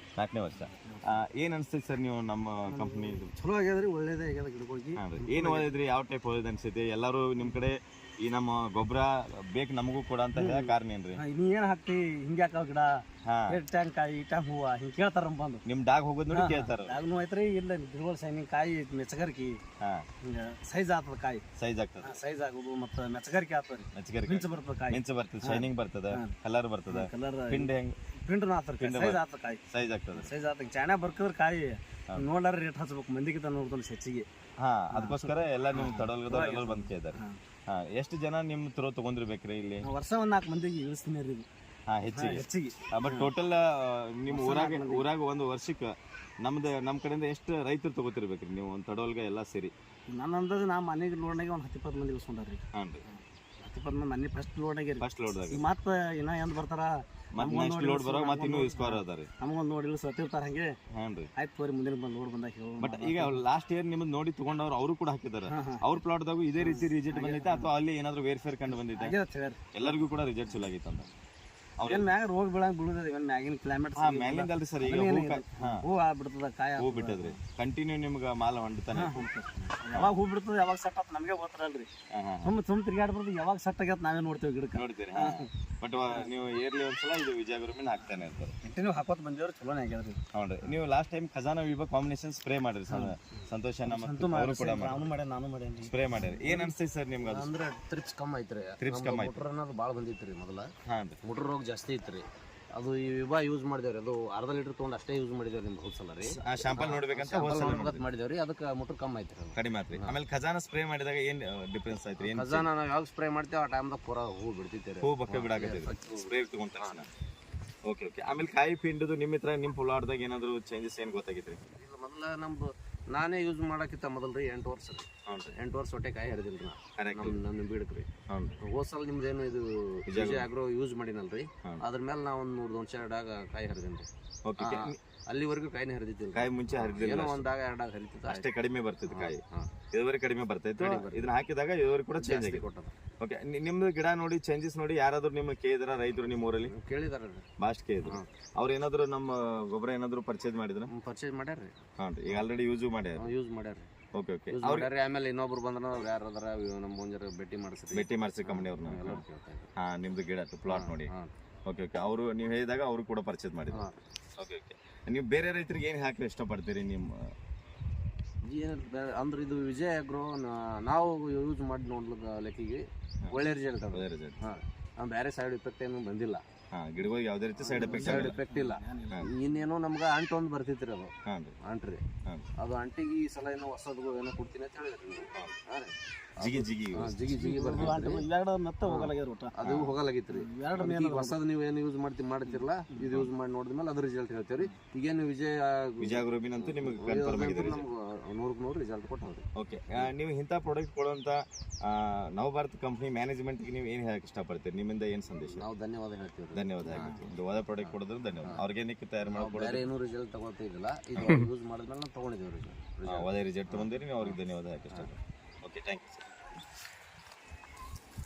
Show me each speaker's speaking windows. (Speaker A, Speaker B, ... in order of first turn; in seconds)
Speaker A: 0.2-3.3, 5.0-11.2, 13.2-13.6, 15.7-17.0, 19.8-20.1, 21.6-22.2, 23.9-27.9, 28.8-30.3, 34.6-39.9, 41.9-49.7, 52.7-53.0, 55.0-55.6, 57.3-59.3, 60.9-61.3, 62.8-69.2, 69.7-71.1, 71.8-72.1, 73.9-75.8, 76.8-79.3, 82.1-82.6, 84.7-88.6, 90.3-95.1, 95.8-97.5, 98.8-99.5, 100.8-101.2, 106.3-108.0, 109.5-112.7, 115.0-117.1, 117.8-121.6, 125.2-125.5, 127.0-127.4, 128.3-128.6, 130.1-130.5, 134.4-135.0, 136.3-137.5, 138.3-139.4, 139.9-142.7, 143.2-146.7, 147.6-150.9, 152.0-153.3, 154.1-154.9, 157.9-159.2, 159.8-161.1, 161.7-167.3, 173.9-174.4, 176.7-178.4, 181.2-181.6, 186.4-187.2, 189.6-189.9, 196.0-197.9, 199.6-205.7, 206.5-209.9, 211.2-211.4, 213.1-216.2
Speaker B: 2.7-5.7, 10.3-15.6, 16.3-19.6, 20.2-21.4, 22.0-26.3, 26.9-27.7, 28.2-29.6, 30.1-34.3, 34.9-37.4, 39.8-41.5, 42.1-43.3, 44.3-45.1, 50.1-60.7, 61.4-63.4, 65.5-65.8, 66.6-67.7, 68.7-70.6, 71.8-77.4, 78.9-81.9, 82.4-85.5, 86.1-86.4, 88.6-90.2, 92.9-93.1, 93.8-96.7, 177.6-179.6, 187.3-189.5, 190.3-191.4, 206.9-207.2
Speaker C: 97.2-100.7, 101.2-110.2, 112.2-117.1, 121.8-128.1, 128.6-134.1, 134.6-138.5, 139.1-139.7, 140.8-141.3, 142.2-142.9, 146.6-147.5, 148.0-148.3, 150.9-151.8, 153.2-153.9, 154.5-159.7, 160.7-161.3, 163.7-164.0, 168.4-176.4, 177.7-182.0, 182.6-188.2, 188.8-200.1, 205.4-207.3, 207.8-208.6, 209.3-214.4